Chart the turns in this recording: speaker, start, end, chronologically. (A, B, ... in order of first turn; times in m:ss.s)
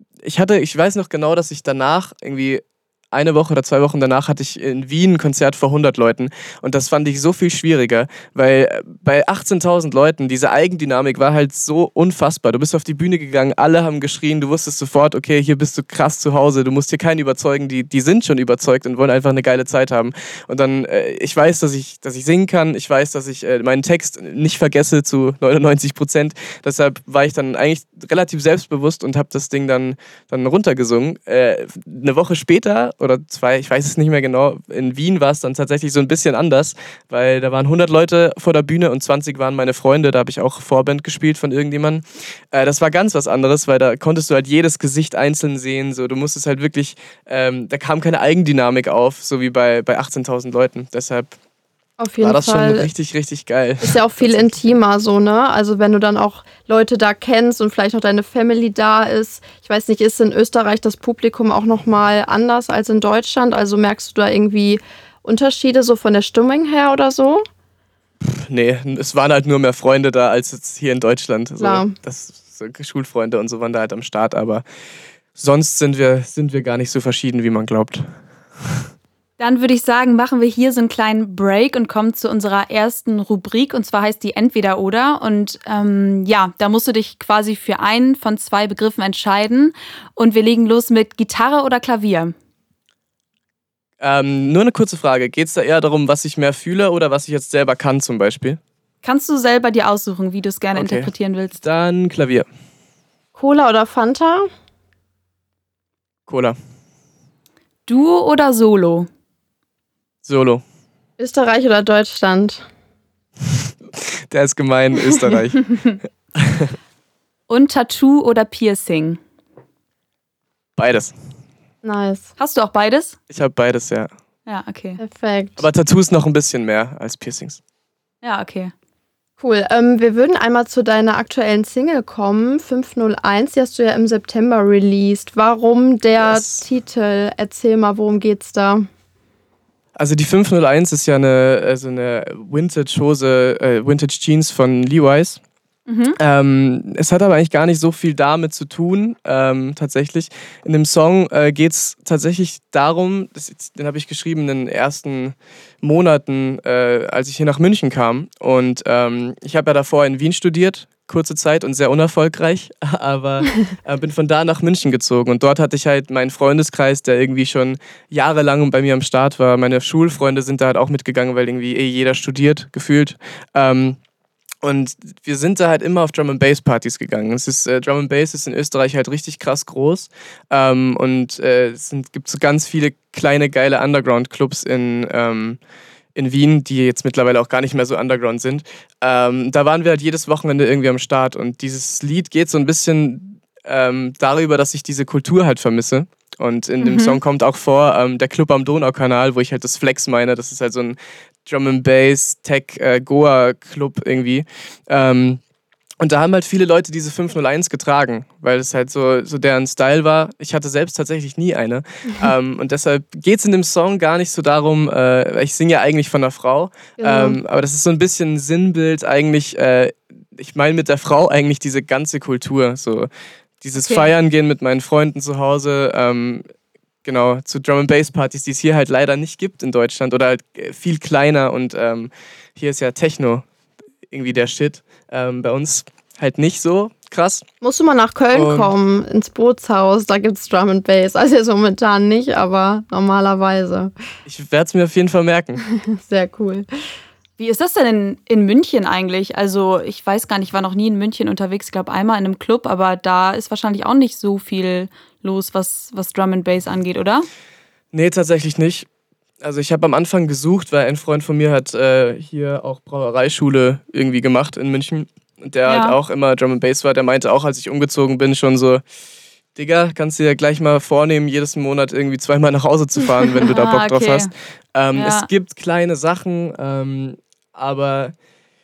0:00.2-0:51.4 A
0:52.0-0:52.9 B
0:52.2-0:54.6 A
0:53.8-1:07.4 B
1:08.2-1:14.6 A
1:11.6-1:11.9 B
1:15.4-1:18.1 A
1:19.4-1:32.3 C
1:34.0-1:38.6 A
1:39.0-1:41.6 C
1:40.7-1:42.5 A
1:43.4-1:44.5 B
1:46.3-1:46.6 A
1:47.9-1:49.1 C
1:50.2-1:50.6 A
1:51.2-1:52.6 B
1:54.0-1:55.7 A
1:56.4-1:56.8 A
1:57.5-1:59.2 C
2:00.8-2:01.1 A
2:01.8-2:02.3 B
2:02.4-2:03.2 C
2:03.3-2:04.1 A
2:04.5-2:05.0 C
2:05.0-2:05.6 B
2:05.6-2:07.6 A
2:08.2-2:08.7 C
2:09.4-2:18.9 B
2:16.2-2:16.6 A
2:20.0-2:25.4 A
2:25.9-2:26.2 C
2:26.2-2:54.0 A
2:54.6-3:05.6 A
3:06.1-3:25.4 A
3:16.8-3:17.2 C
3:26.0-3:43.1 A
3:37.0-3:37.4 B
3:43.6-3:46.4 A
3:43.8-3:44.1 C
3:47.0-3:53.4 A
3:54.1-3:57.4 A
3:57.6-4:03.9 B
3:58.3-3:58.7 A
4:04.2-4:05.6 A
4:05.7-4:06.7 B
4:07.4-4:17.3 C
4:17.9-4:18.9 A
4:19.4-4:28.8 A
4:25.6-4:26.0 C
4:29.6-4:38.1 A
4:33.4-4:34.3 C
4:34.9-4:35.3 C